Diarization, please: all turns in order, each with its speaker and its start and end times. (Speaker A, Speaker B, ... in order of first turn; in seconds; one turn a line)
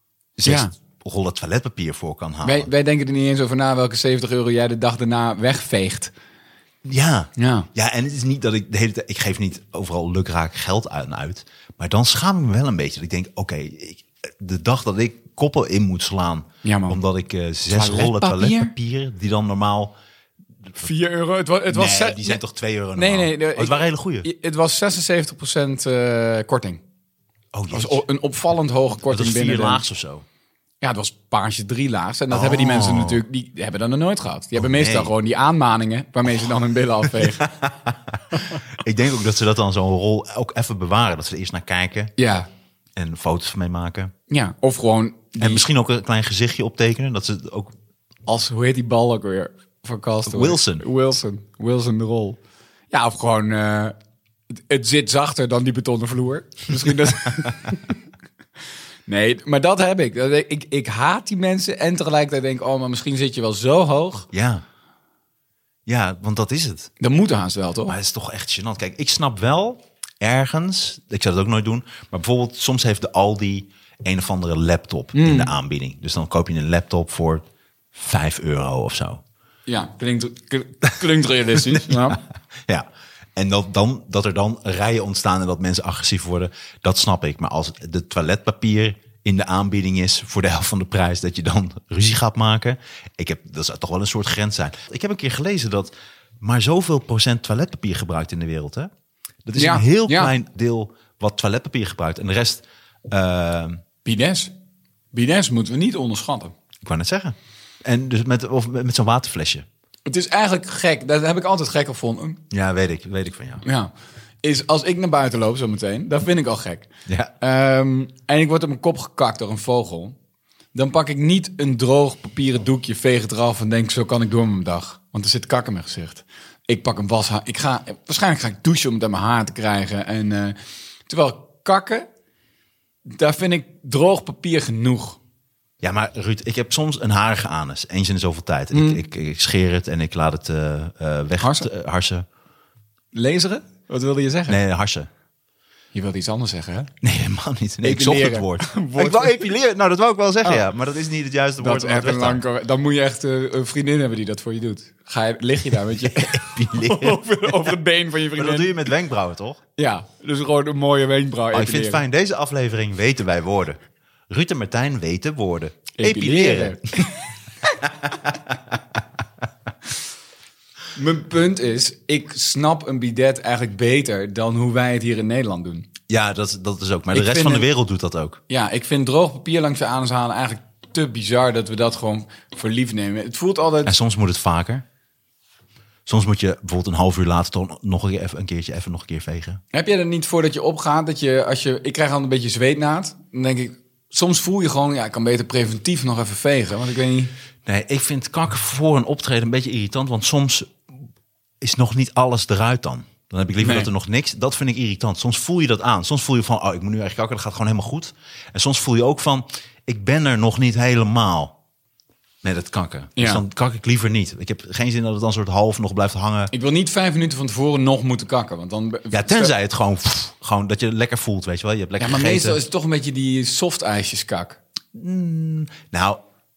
Speaker A: 0.4-2.7
Speaker B: 0.4-0.7
Speaker B: 2.4-6.1
Speaker A: 6.8-19.9
Speaker B: 7.4-7.7
Speaker B: 16.6-17.0
Speaker B: 17.6-18.7
Speaker B: 20.8-22.4
Speaker A: 21.7-24.3
Speaker B: 22.9-26.8
Speaker A: 27.5-28.0
Speaker B: 27.7-29.8
Speaker A: 29.0-30.2
Speaker B: 30.8-37.5
Speaker A: 32.3-33.2
Speaker A: 34.5-35.1
Speaker A: 37.1-42.1
Speaker B: 42.2-42.5
Speaker A: 43.0-44.1
Speaker B: 44.3-45.7
Speaker A: 45.4-47.7
Speaker B: 48.2-52.4
Speaker A: 50.3-50.8
Speaker B: 52.9-54.0
Speaker B: 54.5-58.0
Speaker B: 59.1-64.3
Speaker A: 64.3-64.6
Speaker A: 65.8-66.9
Speaker B: 67.0-68.0
Speaker A: 67.8-79.2
Speaker B: 75.1-75.5
Speaker B: 79.7-82.2
Speaker A: 81.5-98.9
Speaker A: 99.4-103.8
Speaker B: 99.5-100.3
Speaker B: 104.0-104.5
Speaker B: 105.1-106.5
Speaker A: 106.8-109.7
Speaker B: 110.1-112.4
Speaker A: 112.5-113.6
Speaker B: 113.6-113.9
Speaker B: 114.4-116.9
Speaker A: 117.1-117.3
Speaker B: 117.4-120.2
Speaker B: 120.7-132.1
Speaker B: 133.0-135.2
Speaker A: 135.8-142.2
Speaker B: 138.7-139.0
Speaker B: 141.4-141.7
Speaker B: 143.1-144.6
Speaker A: 144.5-145.1
Speaker B: 145.9-146.9
Speaker A: 147.0-152.4
Speaker B: 147.8-149.5
Speaker B: 151.6-158.8
Speaker A: 156.1-157.7
Speaker A: 158.3-159.6
Speaker B: 159.8-162.0
Speaker A: 161.5-167.1
Speaker B: 166.0-167.1
Speaker A: 168.1-168.6
Speaker B: 170.9-175.9
Speaker A: 176.1-178.4
Speaker B: 177.1-177.7
Speaker B: 178.5-183.9
Speaker A: 183.8-184.8
Speaker A: 186.1-189.6
Speaker B: 189.7-197.3
Speaker A: 197.6-200.8
Speaker A: 201.6-211.6
Speaker B: 203.6-203.9
Speaker A: 212.4-216.5
Speaker B: 213.2-213.4
Speaker B: 216.5-219.5
Speaker A: 219.1-222.6
Speaker B: 222.0-224.6
Speaker A: 224.9-226.2